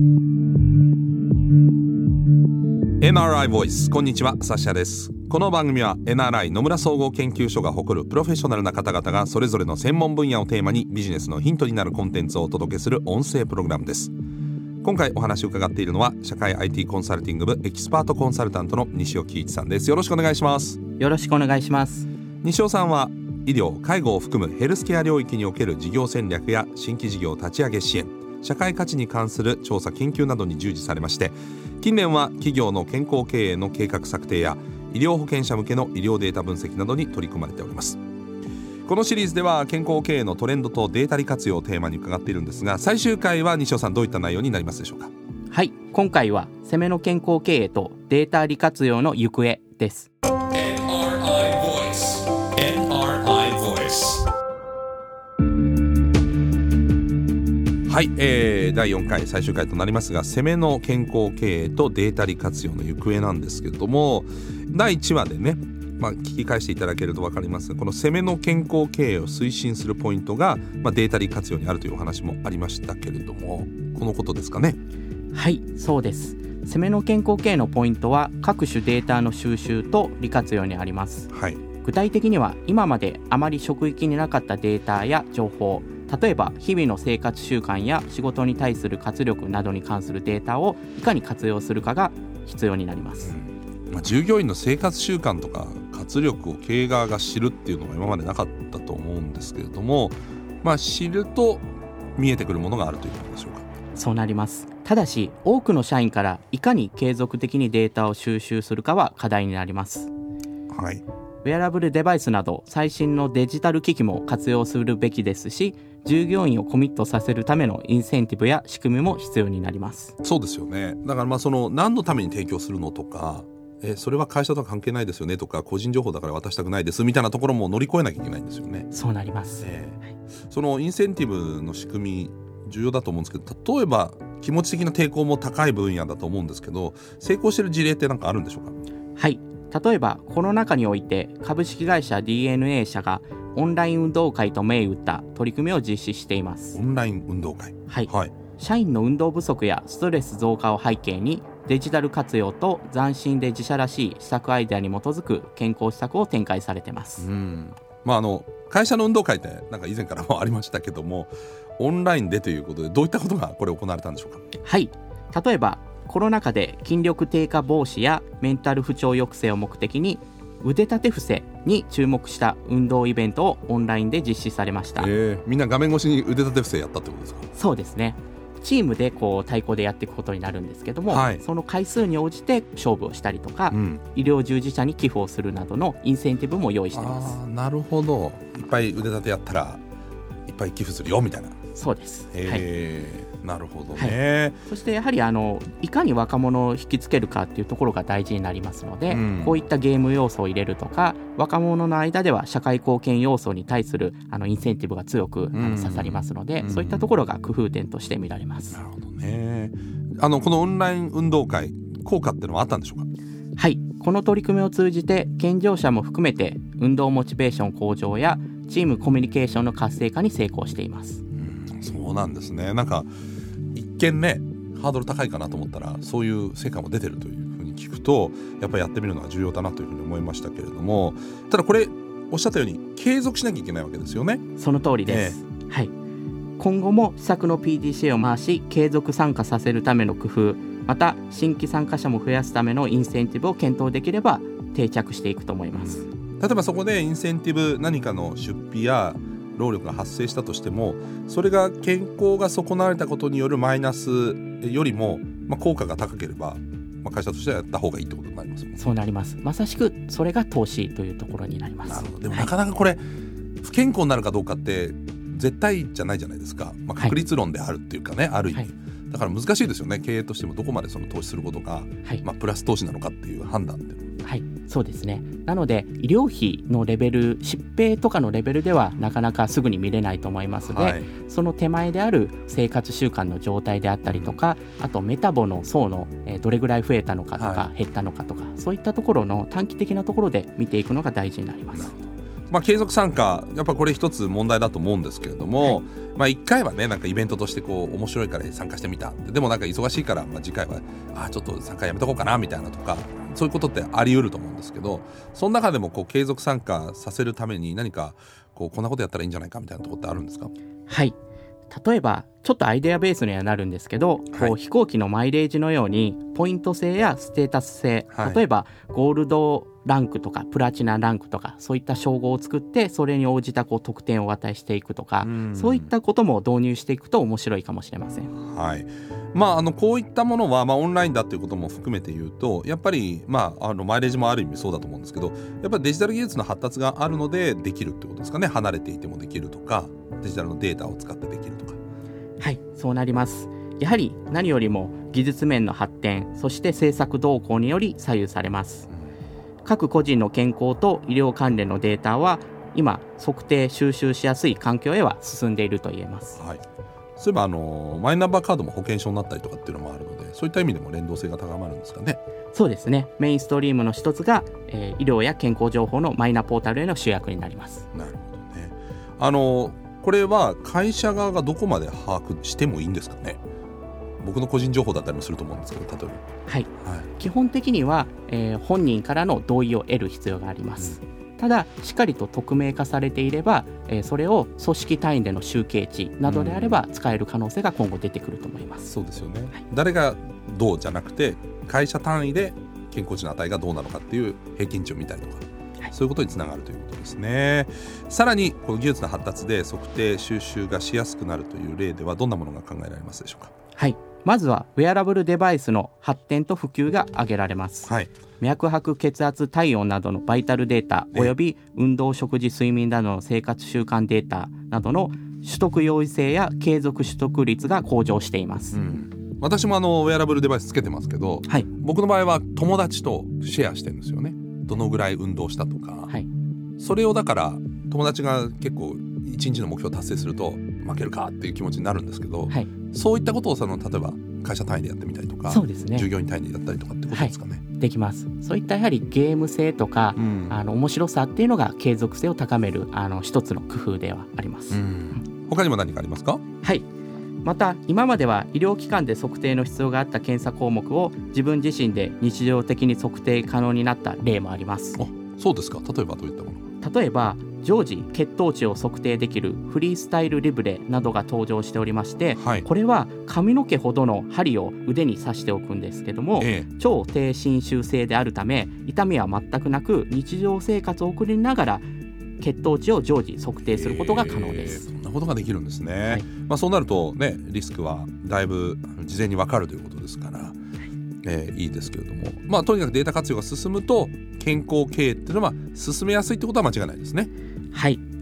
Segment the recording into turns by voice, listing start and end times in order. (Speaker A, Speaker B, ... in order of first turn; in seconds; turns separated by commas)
Speaker A: 3.0-14.1, Speaker A: 14.8-20.8, Speaker B: 21.0-22.1, Speaker A: 22.4-38.0, Speaker A: 38.9-45.1, Speaker B: 45.5-50.1, Speaker A: 50.5-54.2, Speaker A: 57.9-74.8, Speaker B: 75.3-93.3, Speaker A: 81.3-81.6, Speaker A: 93.2-103.7, Speaker B: 103.9-110.1, Speaker A: 110.7-111.0, Speaker B: 111.4-120.2, Speaker A: 120.2-128.9, Speaker B: 128.9-129.7, Speaker A: 129.6-138.8, Speaker B: 139.2-146.8, Speaker A: 146.7-148.3, Speaker B: 147.9-157.3, Speaker A: 157.2-164.4, Speaker B: 164.6-175.1, Speaker A: 175.0-177.5, Speaker B: 177.5-187.4, Speaker A: 181.1-181.4, Speaker A: 183.7-184.0, Speaker A: 186.9-189.8, Speaker A: 190.5-191.6, Speaker B: 191.7-192.7, Speaker A: 192.3-194.6, Speaker B: 193.9-208.8, Speaker A: 199.1-199.5, Speaker A: 205.5-207.1, Speaker A: 208.7-213.1, Speaker B: 213.6-221.2, Speaker A: 221.4-223.1, Speaker A: 223.7-234.4, Speaker B: 234.6-235.9, Speaker A: 235.1-235.4, Speaker B: 236.6-246.1, Speaker A: 245.7-258.8, Speaker B: 258.8-262.5, Speaker A: 261.8-263.0, Speaker A: 263.6-274.1, Speaker B: 274.2-291.9, Speaker A: 280.6-281.1, Speaker A: 284.1-284.4, Speaker A: 287.4-287.7, Speaker A: 292.5-310.5, Speaker B: 310.9-311.1, Speaker B: 311.7-328.3, Speaker A: 318.1-318.4, Speaker A: 325.2-325.9, Speaker A: 328.4-341.8, Speaker B: 342.4-348.9, Speaker B: 349.6-356.4, Speaker A: 357.2-362.2, Speaker B: 362.5-367.9, Speaker A: 367.9-373.4, Speaker A: 374.2-376.2, Speaker B: 376.5-388.9, Speaker A: 376.8-377.1, Speaker A: 386.2-386.8, Speaker A: 388.9-403.5, Speaker B: 403.8-418.8, Speaker A: 418.7-426.1, Speaker A: 426.8-437.6, Speaker B: 435.5-436.1, Speaker B: 437.1-445.2, Speaker A: 440.1-440.6, Speaker A: 444.7-446.4, Speaker B: 446.6-446.9, Speaker B: 447.4-455.0, Speaker A: 455.0-456.6, Speaker B: 456.8-471.9, Speaker A: 462.4-462.7, Speaker A: 466.4-466.6, Speaker B: 472.4-474.9, Speaker A: 473.7-480.6, Speaker A: 481.2-487.3, Speaker B: 487.7-488.0